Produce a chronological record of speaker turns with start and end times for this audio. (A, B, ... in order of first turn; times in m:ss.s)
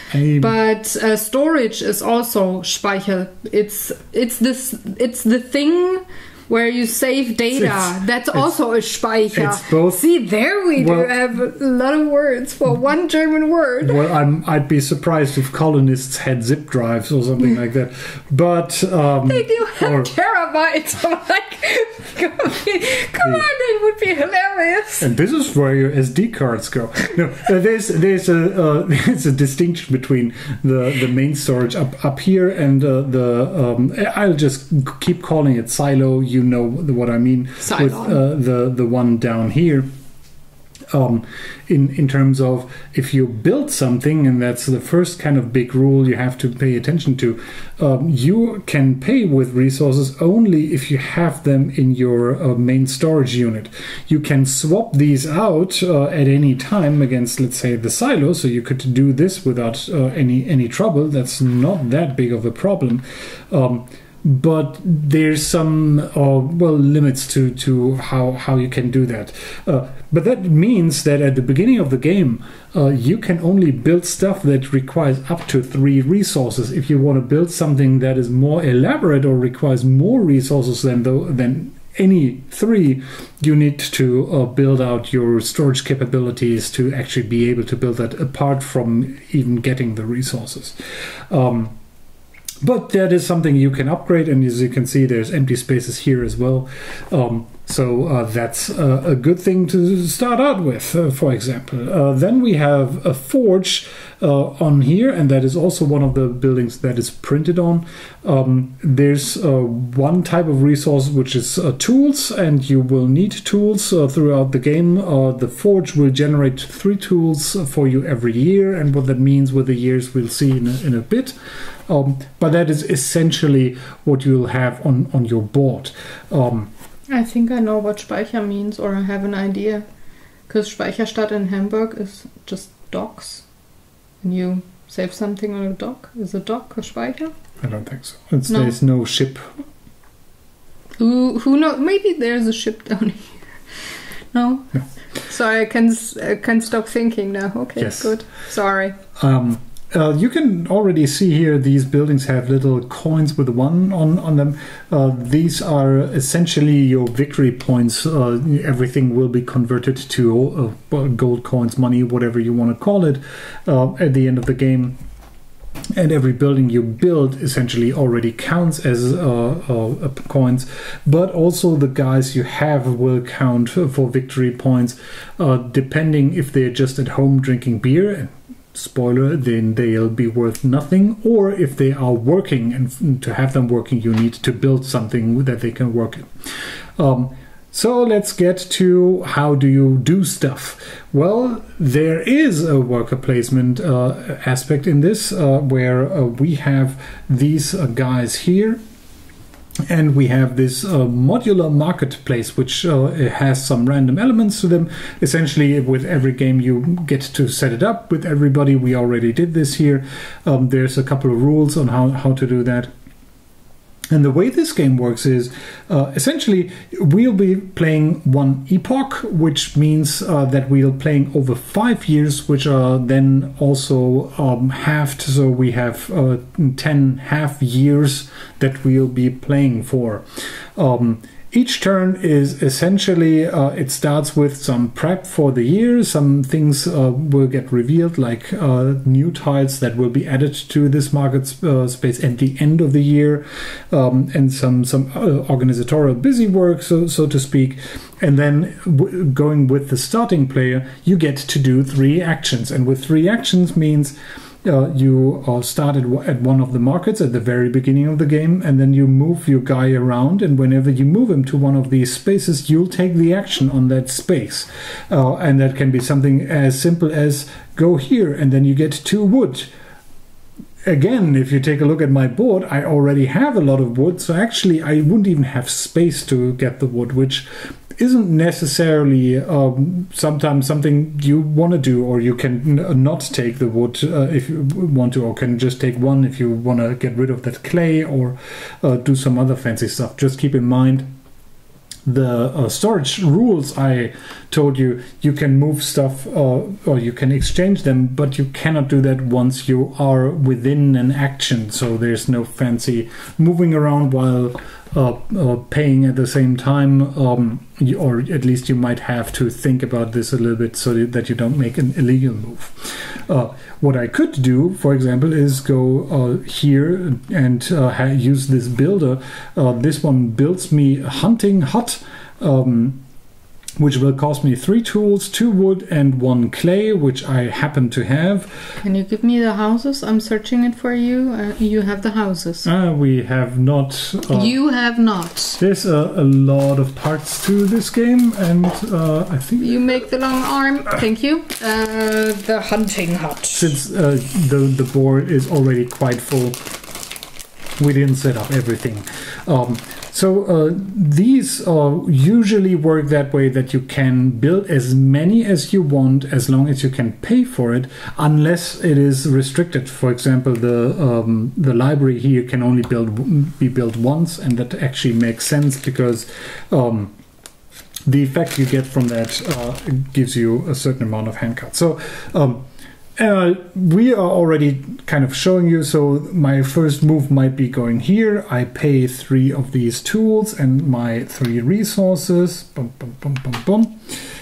0:00.1-0:00.6 A
0:00.4-0:14.0 B
0:07.5-0:08.5 A
0:09.3-0:10.0 A
0:10.8-0:11.1 A
0:13.8-0:20.1 A
0:19.2-0:25.1 B
0:25.0-0:39.9 A
0:37.6-0:38.2 B
0:40.9-1:30.8 A
1:31.3-1:31.7 A
1:32.6-2:01.3 A
2:01.9-2:06.7 A
2:07.1-2:09.8 B
2:10.5-2:13.4 B
2:14.2-2:17.3 B
2:17.6-2:19.5 A
2:18.5-2:18.8 B
2:21.0-2:23.4 B
2:24.3-2:29.0 B
2:27.8-2:28.2 A
2:29.2-2:45.0 A
2:45.9-3:06.3 A
3:07.0-3:18.8 A
3:19.9-3:32.9 A
3:34.1-3:50.2 A
3:50.8-4:29.7 A
4:30.8-4:51.1 A
4:52.0-5:23.0 A
5:23.8-5:28.8 A
5:28.8-5:32.7 B
5:32.6-5:34.6 A
5:34.3-5:35.6 B
5:35.6-5:39.8 A
5:39.6-5:43.8 B
5:43.5-5:46.7 A
5:47.8-6:07.1 A
6:08.0-6:12.6 A
6:13.2-6:24.1 A